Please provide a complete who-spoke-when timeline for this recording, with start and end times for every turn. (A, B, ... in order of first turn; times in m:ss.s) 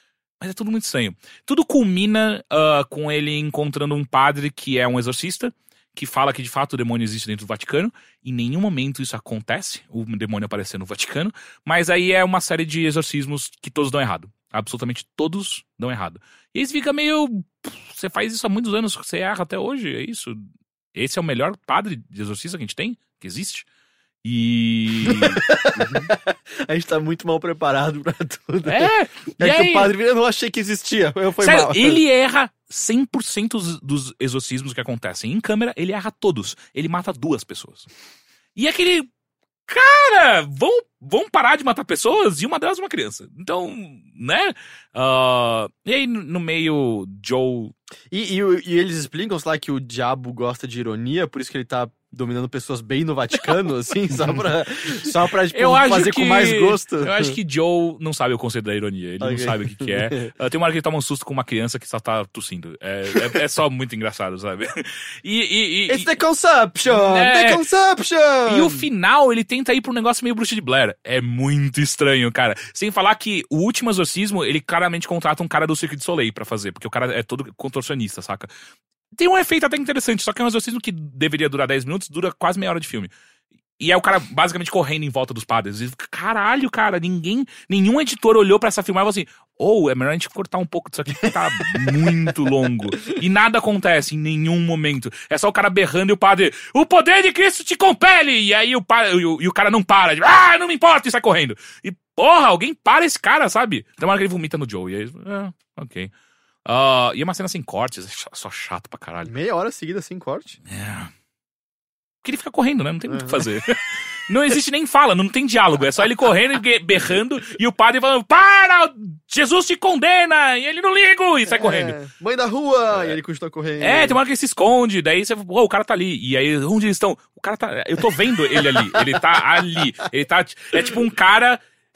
0:00.4-0:20.4 A
0:20.9-0:23.7 A
0:24.2-0:25.4 A
0:25.0-0:32.0 B
0:28.6-0:29.9 A
0:31.4-0:37.9 A
0:38.6-0:39.1 A
0:39.7-0:47.7 A
0:48.1-0:57.4 B
0:55.5-1:06.1 A
0:59.2-1:00.3 B
1:05.9-1:08.8 B
1:06.9-1:07.6 A
1:08.5-1:18.5 A
1:19.2-1:23.1 A
1:23.8-1:46.1 A
1:31.8-1:32.3 B
1:46.7-1:49.3 A
1:49.2-1:50.6 B
1:50.7-1:51.1 A
1:52.2-2:02.0 A
1:53.1-1:53.5 B
2:01.5-2:04.2 B
2:02.9-2:03.2 A
2:03.8-2:11.6 A
2:08.7-2:09.4 B